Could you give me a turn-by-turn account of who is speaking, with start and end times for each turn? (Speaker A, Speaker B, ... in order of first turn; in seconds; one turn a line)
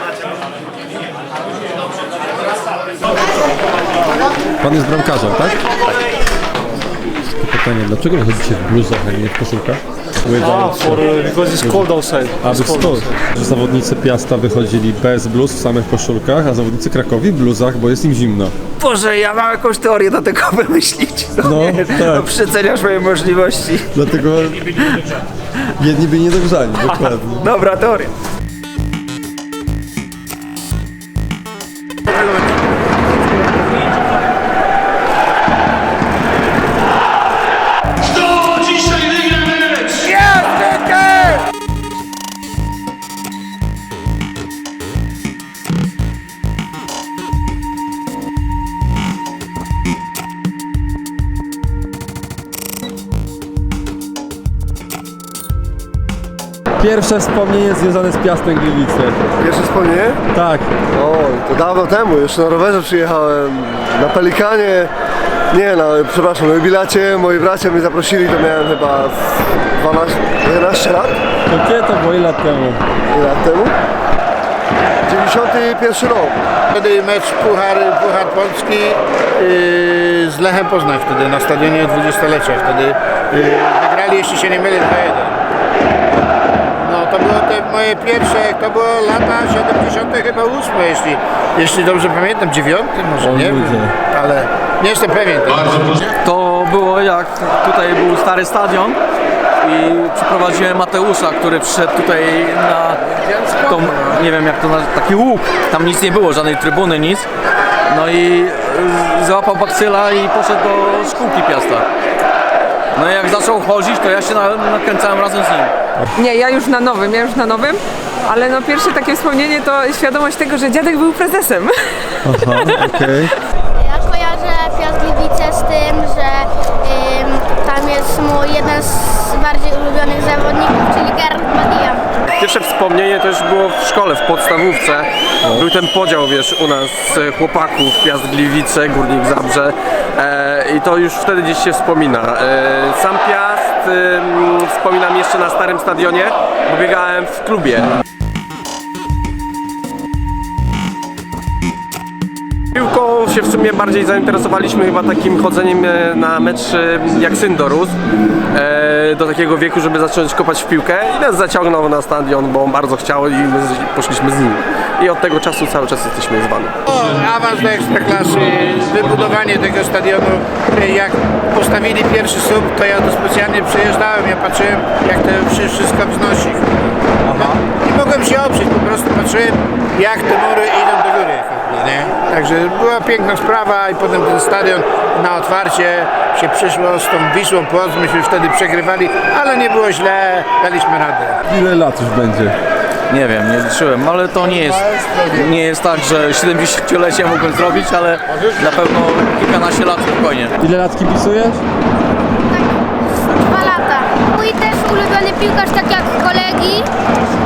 Speaker A: 4.6-5.6
Speaker A: 7.3-11.9
Speaker B: 10.4-13.1
Speaker A: 12.4-18.6
Speaker C: 18.8-23.6
Speaker A: 21.4-22.3
Speaker A: 23.9-24.8
Speaker A: 25.8-27.5
Speaker C: 27.4-27.9
Speaker A: 56.8-59.2
Speaker D: 59.4-60.2
Speaker A: 60.3-60.7
Speaker D: 60.9-64.9
Speaker D: 65.5-71.2
Speaker A: 71.5-72.8
Speaker D: 73.1-73.7
Speaker D: 75.1-76.3
Speaker E: 76.7-85.4
Speaker E: 86.6-95.9
Speaker A: 93.2-94.0
Speaker F: 96.2-99.0
Speaker F: 99.6-103.0
Speaker F: 103.6-107.3
Speaker F: 107.9-111.8
Speaker F: 112.9-115.7
Speaker G: 116.2-121.7
Speaker A: 122.2-123.3
Speaker G: 122.6-122.9
Speaker H: 123.8-132.1
Speaker I: 132.2-147.9
Speaker I: 152.8-158.0
Speaker I: 158.5-166.8
Speaker E: 166.9-191.4
Speaker A: 191.5-192.6
Speaker F: 193.1-200.5
Speaker A: 200.6-201.6
Speaker H: 202.3-206.9